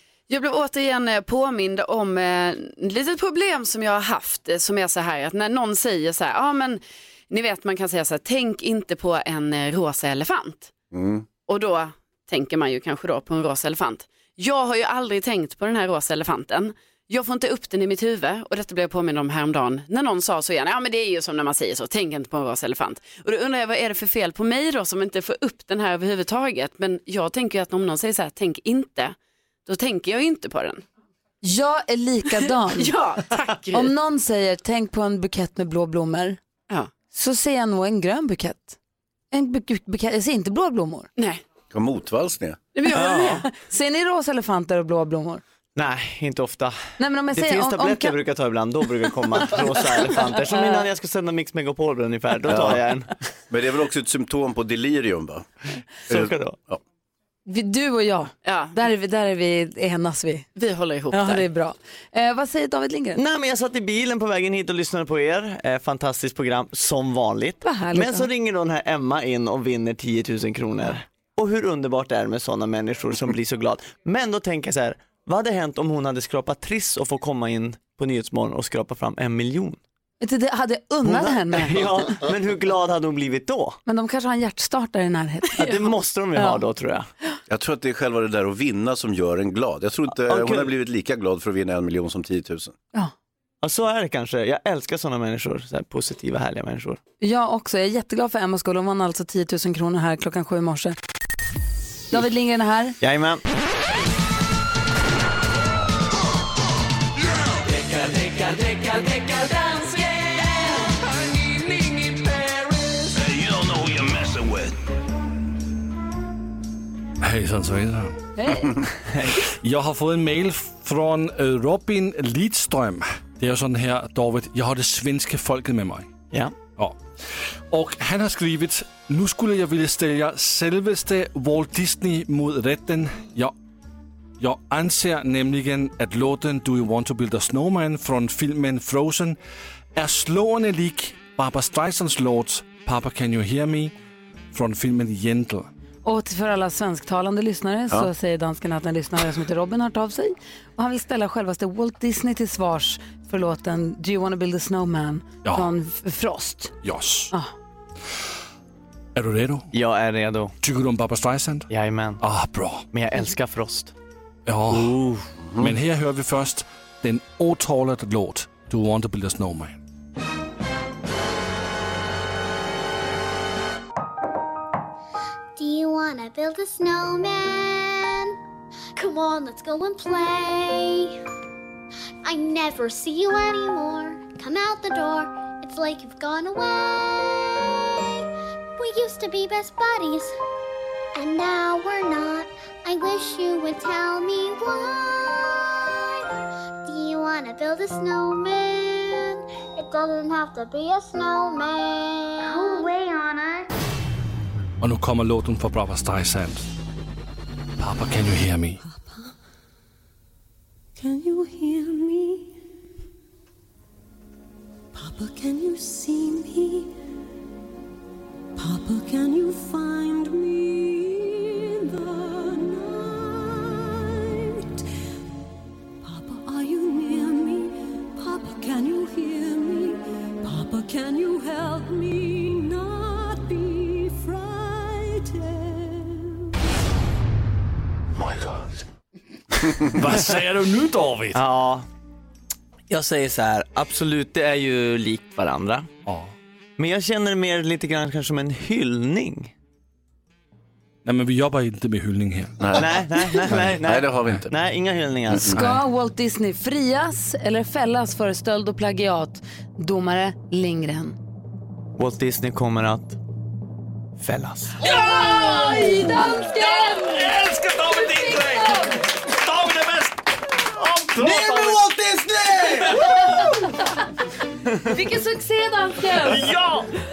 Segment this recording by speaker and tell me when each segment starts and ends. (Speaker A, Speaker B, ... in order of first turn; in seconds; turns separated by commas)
Speaker A: 0.3-10.7, Speaker B: 10.9-11.2, Speaker A: 11.4-30.8, Speaker C: 31.4-32.9, Speaker A: 32.7-33.9, Speaker C: 33.7-36.4, Speaker C: 37.1-38.8, Speaker C: 39.3-41.1, Speaker A: 41.2-41.4, Speaker B: 41.7-42.6, Speaker A: 42.7-43.4, Speaker C: 42.9-45.4, Speaker D: 42.9-43.5, Speaker D: 45.7-53.1, Speaker C: 47.0-48.2, Speaker B: 52.5-52.8, Speaker B: 53.5-55.5, Speaker D: 56.1-56.5, Speaker B: 56.1-56.8, Speaker C: 57.5-60.5, Speaker A: 58.4-58.8, Speaker A: 60.5-61.4, Speaker C: 61.1-63.2, Speaker D: 63.1-79.8, Speaker C: 67.6-68.3, Speaker C: 80.2-82.1, Speaker D: 81.0-83.8, Speaker C: 83.8-86.6, Speaker D: 85.5-87.1, Speaker B: 87.5-92.7, Speaker D: 90.2-90.7, Speaker D: 93.6-97.0, Speaker C: 97.2-101.0, Speaker C: 102.1-103.0, Speaker D: 103.0-103.4, Speaker B: 113.2-114.7, Speaker E: 117.2-118.7, Speaker C: 118.4-118.8, Speaker D: 119.2-119.4, Speaker E: 119.4-126.1, Speaker E: 126.7-127.0, Speaker E: 127.7-133.5, Speaker E: 134.4-139.4, Speaker E: 139.9-143.9, Speaker E: 144.5-145.7, Speaker C: 146.0-156.7, Speaker E: 155.4-155.7, Speaker E: 156.8-157.3, Speaker E: 159.1-159.7, Speaker D: 159.7-160.5, Speaker E: 160.6-161.7, Speaker D: 161.7-162.2, Speaker E: 162.2-162.8, Speaker D: 162.9-163.9, Speaker E: 164.4-165.0, Speaker D: 164.7-165.3, Speaker E: 165.6-169.8, Speaker F: 175.6-178.3, Speaker F: 178.9-181.2, Speaker F: 182.2-190.3, Speaker F: 191.1-196.2, Speaker F: 196.8-203.7, Speaker E: 204.8-206.7, Speaker E: 207.8-208.8, Speaker G: 208.9-209.1, Speaker G: 211.0-212.5, Speaker G: 214.9-216.9, Speaker G: 218.6-224.8, Speaker G: 226.0-236.5, Speaker E: 238.2-238.8, Speaker E: 239.6-241.4, Speaker D: 241.3-241.8, Speaker D: 242.9-245.9, Speaker E: 246.1-246.3, Speaker D: 246.8-249.5, Speaker E: 251.0-252.7, Speaker B: 252.6-254.5, Speaker D: 252.7-255.7, Speaker B: 255.3-255.6, Speaker C: 255.5-261.2, Speaker D: 262.0-263.2, Speaker D: 264.2-264.8, Speaker C: 264.8-267.4, Speaker E: 264.9-266.0, Speaker E: 266.5-270.2, Speaker C: 267.9-269.1, Speaker E: 270.7-273.5, Speaker D: 271.2-271.6, Speaker C: 274.8-276.5, Speaker E: 276.2-276.9